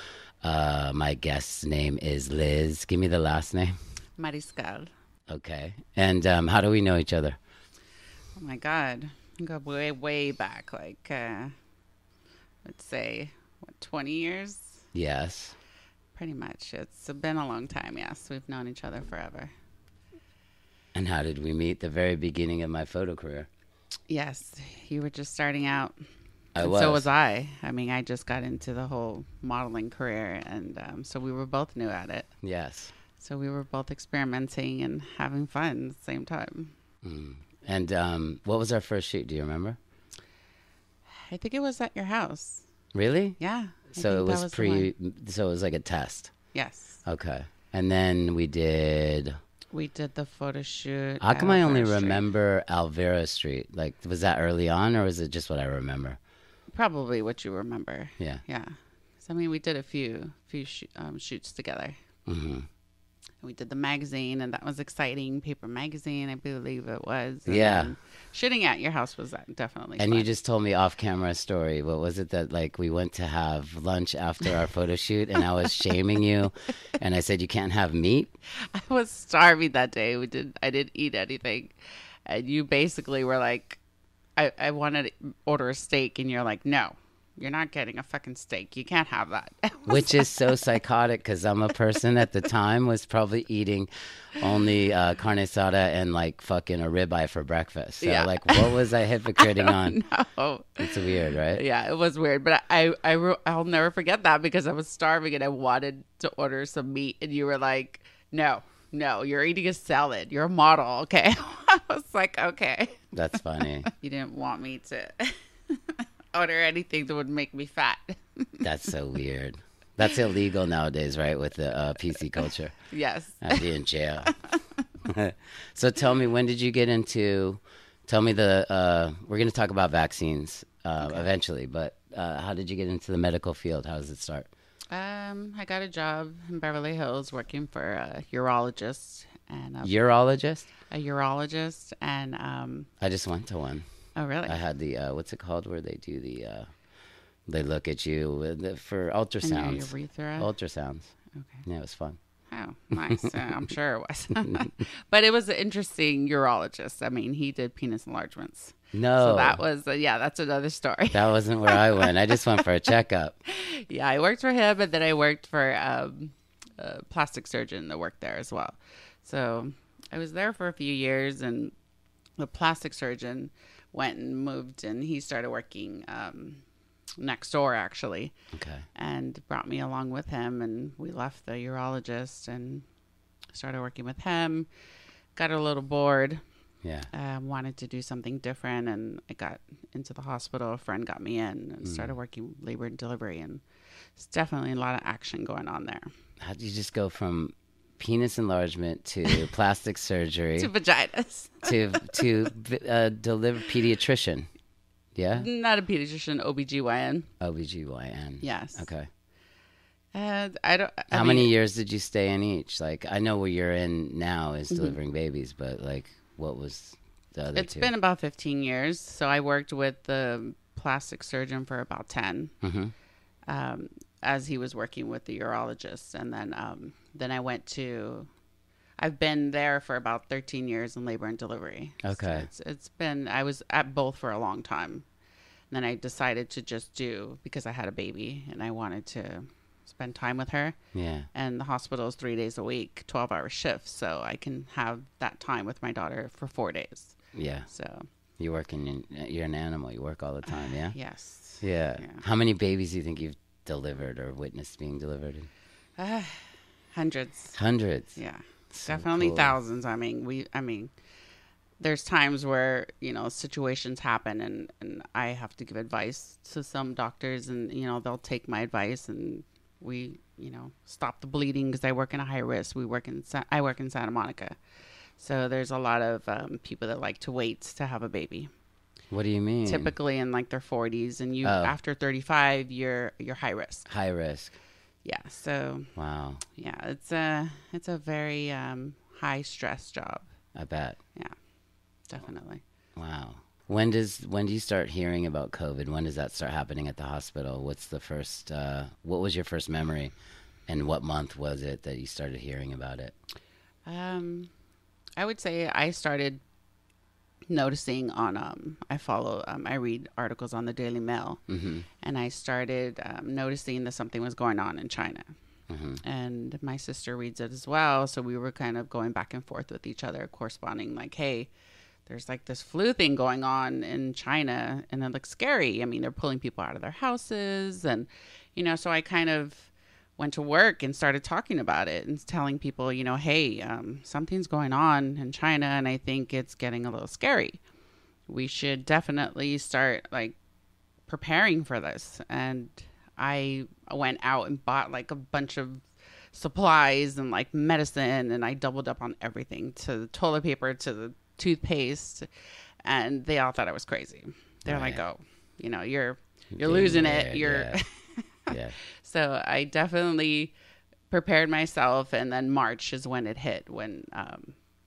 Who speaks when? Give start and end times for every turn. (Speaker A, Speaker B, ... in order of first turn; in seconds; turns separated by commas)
Speaker A: 0.4-3.8, Speaker B: 4.2-4.9, Speaker A: 5.3-7.4, Speaker B: 8.3-11.5, Speaker B: 12.6-14.8, Speaker A: 14.9-15.6, Speaker B: 16.1-19.5, Speaker A: 20.9-23.5, Speaker B: 24.1-26.0, Speaker A: 26.5-27.1, Speaker B: 26.6-32.3, Speaker A: 32.4-32.9, Speaker B: 33.2-36.7, Speaker A: 37.0-39.8, Speaker B: 41.1-42.6, Speaker A: 42.9-43.4, Speaker B: 43.4-44.9, Speaker A: 43.9-46.3, Speaker B: 46.5-47.0, Speaker A: 47.0-49.4, Speaker B: 49.7-52.2, Speaker A: 51.2-56.2, Speaker B: 56.7-62.0, Speaker A: 62.2-62.7, Speaker B: 63.4-70.3, Speaker A: 67.5-67.9, Speaker A: 70.0-78.3, Speaker B: 78.5-83.8, Speaker B: 84.3-90.5, Speaker A: 89.8-100.0, Speaker B: 98.0-113.0, Speaker A: 100.8-101.6, Speaker A: 113.1-113.9, Speaker B: 113.8-118.6, Speaker A: 118.6-122.8, Speaker B: 122.9-123.6, Speaker A: 123.4-124.3, Speaker B: 124.2-124.6, Speaker A: 125.0-134.5, Speaker B: 134.9-139.9, Speaker A: 139.8-140.7, Speaker B: 140.9-142.9, Speaker A: 143.0-143.8, Speaker B: 144.2-144.6, Speaker A: 144.5-146.7, Speaker A: 147.5-151.1, Speaker B: 149.4-150.5, Speaker A: 151.6-152.2, Speaker B: 152.5-162.3, Speaker A: 153.0-153.4, Speaker A: 154.4-154.7, Speaker A: 158.9-159.6, Speaker A: 161.1-163.4, Speaker B: 163.5-171.7, Speaker B: 172.4-176.6, Speaker B: 177.2-178.3, Speaker A: 178.5-178.8, Speaker B: 178.9-182.8, Speaker B: 183.5-184.7, Speaker B: 185.3-186.4, Speaker A: 186.8-187.1, Speaker B: 187.1-193.6, Speaker A: 191.8-192.1, Speaker B: 194.2-196.1, Speaker A: 196.4-200.7, Speaker B: 200.6-202.3, Speaker A: 201.6-204.5, Speaker A: 205.2-205.5, Speaker B: 205.3-207.3, Speaker A: 207.4-209.1, Speaker B: 208.4-208.8, Speaker B: 210.1-211.5, Speaker A: 211.1-217.9, Speaker B: 214.7-214.9, Speaker B: 217.5-222.5, Speaker A: 222.6-222.9, Speaker B: 223.5-228.3, Speaker B: 229.0-235.1, Speaker A: 232.0-232.5, Speaker B: 235.7-240.8, Speaker A: 240.9-241.3, Speaker B: 241.3-247.1, Speaker A: 247.3-247.7, Speaker B: 247.7-248.1, Speaker A: 248.4-250.9, Speaker B: 250.5-252.2, Speaker A: 251.6-255.5, Speaker B: 256.0-257.5, Speaker A: 257.5-258.2, Speaker B: 258.1-260.9, Speaker A: 258.7-259.6, Speaker B: 261.8-274.6, Speaker B: 275.2-278.5, Speaker A: 279.1-279.9, Speaker B: 279.6-283.9, Speaker A: 281.4-281.7, Speaker A: 283.9-284.6, Speaker B: 285.0-285.9, Speaker A: 285.9-286.4, Speaker B: 286.5-290.2, Speaker A: 290.5-291.0, Speaker B: 292.1-292.6, Speaker A: 292.9-300.1, Speaker A: 300.7-303.1, Speaker B: 303.9-304.5, Speaker B: 305.2-306.4, Speaker B: 307.5-311.4, Speaker A: 311.5-311.9, Speaker B: 312.0-315.3, Speaker A: 315.7-316.0, Speaker B: 316.0-321.5, Speaker B: 322.1-337.6, Speaker B: 338.3-340.4, Speaker B: 341.1-352.3, Speaker B: 352.8-360.5, Speaker A: 354.7-355.0, Speaker A: 356.5-357.8, Speaker A: 358.5-358.7, Speaker B: 361.1-364.6